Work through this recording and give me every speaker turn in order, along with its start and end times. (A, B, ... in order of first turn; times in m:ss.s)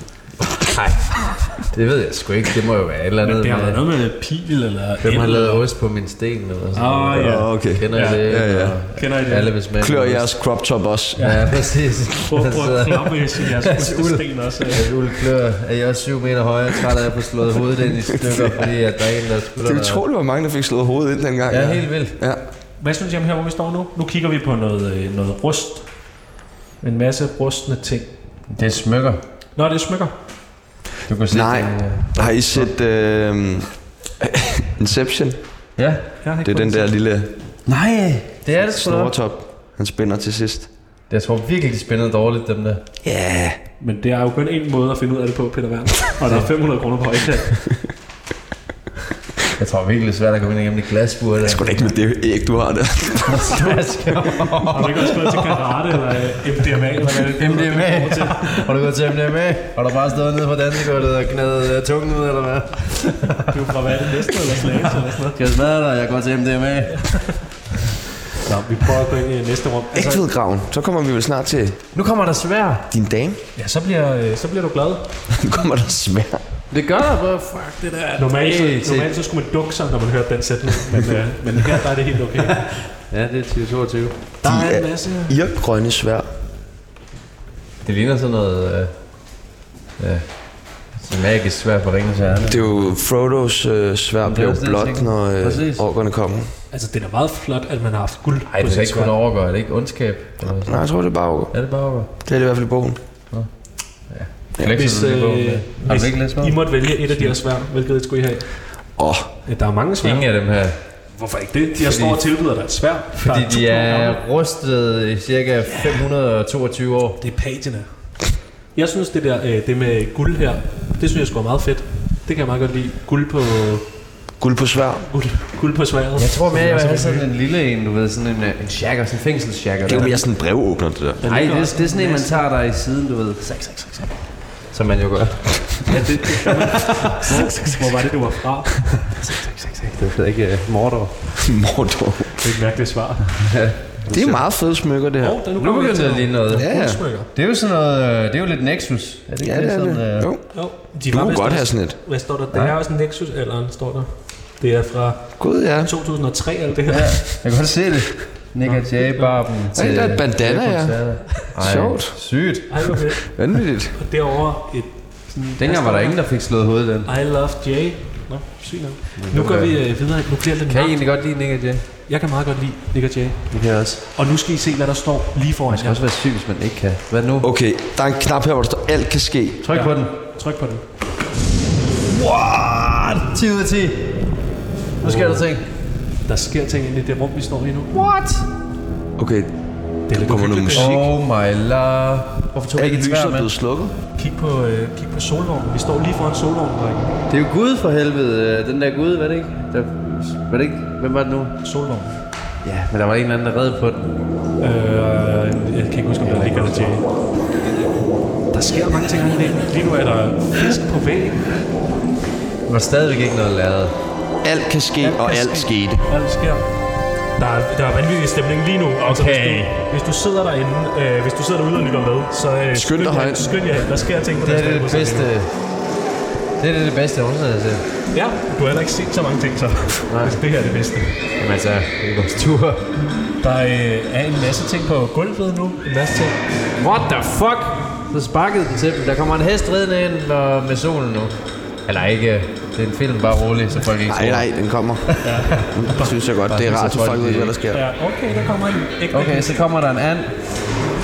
0:00.4-0:03.8 A
0:03.2-0:05.6 B
0:05.0-0:10.3 A
0:06.7-0:08.2 B
0:07.2-0:08.8 C
0:08.9-0:09.5 B
0:09.8-0:11.3 C
0:11.2-0:11.5 B
0:11.2-0:20.0 A
0:12.2-0:14.9 B
0:18.3-0:18.6 C
0:19.6-0:22.4 C
0:21.5-0:22.2 A
0:22.8-0:26.1 B
0:26.8-0:28.1 B
0:28.5-0:29.2 A
0:29.6-0:30.1 B
0:31.1-0:32.7 A
0:31.3-0:35.4 C
0:35.8-0:36.0 A
0:36.2-0:36.9 B
0:36.4-0:37.3 C
0:37.6-0:39.1 A
0:38.6-0:40.7 C
0:41.1-0:42.8 A
0:43.0-0:43.6 C
0:43.8-0:47.6 B
0:46.2-0:46.5 A
0:49.6-0:51.8 A
0:51.4-0:53.8 C
0:53.2-0:55.6 A
0:54.7-0:58.7 B
0:57.1-1:03.7 A
1:03.5-1:05.4 B
1:05.2-1:07.2 A
1:07.0-1:07.4 B
1:08.4-1:10.2 B
1:09.9-1:11.8 C
1:11.9-1:12.9 A
1:12.9-1:13.4 C
1:13.6-1:15.1 B
1:15.3-1:16.4 C
1:16.7-1:19.1 A
1:18.2-1:22.7 B
1:22.9-1:24.1 A
1:24.4-1:25.4 B
1:24.4-1:26.3 C
1:27.8-1:28.9 A
1:30.0-1:30.3 A
1:30.9-1:32.7 A
1:32.4-1:36.5 C
1:34.2-1:35.8 A
1:36.7-1:39.1 B
1:38.5-1:40.8 A
1:40.5-1:41.5 C
1:41.5-1:42.1 A
1:42.2-1:43.0 C
1:44.1-1:46.6 A
1:44.6-1:48.7 B
1:49.0-1:49.3 C
1:49.4-1:50.2 B
1:50.0-1:50.8 A
1:51.2-1:54.2 B
1:51.8-1:52.2 A
1:53.1-1:57.2 A
1:57.2-1:58.1 B
1:58.7-2:03.8 B
2:04.4-2:05.1 C
2:05.1-2:07.2 B
2:06.2-2:10.2 A
2:09.8-2:11.2 C
2:11.2-2:12.4 B
2:11.2-2:13.5 A
2:13.4-2:14.1 B
2:14.7-2:17.7 A
2:16.2-2:20.0 B
2:20.0-2:21.1 A
2:21.4-2:22.3 C
2:22.4-2:23.4 B
2:23.4-2:24.4 A
2:24.1-2:25.4 C
2:25.2-2:27.3 B
2:25.6-2:26.7 A
2:26.5-2:27.0 C
2:27.3-2:30.3 A
2:29.4-2:32.0 C
2:30.5-2:37.2 B
2:35.4-2:35.9 C
2:36.9-2:42.8 A
2:38.6-2:39.3 B
2:39.7-2:42.1 C
2:42.7-2:43.3 B
2:43.3-2:43.9 C
2:43.9-2:46.2 B
2:45.6-2:47.1 A
2:47.0-2:51.0 B
2:49.2-2:49.8 A
2:50.7-2:51.8 A
2:52.1-2:53.4 B
2:53.5-2:54.0 A
2:54.1-2:56.0 B
2:55.7-2:57.5 A
2:57.4-2:59.6 C
2:59.6-3:00.1 A
2:59.7-3:00.8 B
3:02.0-3:04.2 A
3:05.0-3:05.6 A
3:05.0-3:05.4 B
3:06.2-3:07.9 B
3:07.9-3:08.5 A
3:09.2-3:11.0 C
3:10.1-3:11.0 B
3:10.7-3:13.5 A
3:12.7-3:13.9 C
3:14.2-3:17.2 B
3:17.3-3:21.6 A
3:21.6-3:22.1 B
3:22.6-3:24.1 A
3:24.6-3:27.0 B
3:26.2-3:27.0 A
3:28.5-3:31.5 B
3:32.6-3:33.9 A
3:34.4-3:36.0 C
3:35.0-3:36.7 B
3:37.4-3:45.3 B
3:39.0-3:39.8 A
3:42.7-3:43.5 C
3:44.4-3:45.5 A
3:46.6-3:47.8 A
3:48.1-3:51.2 B
3:50.1-3:50.4 A
3:51.4-3:52.9 A
3:53.4-3:56.4 B
3:56.8-4:04.5 A
4:04.1-4:07.8 C
4:05.0-4:05.9 A
4:05.2-4:06.1 B
4:06.4-4:07.6 A
4:07.7-4:09.6 B
4:09.1-4:10.5 A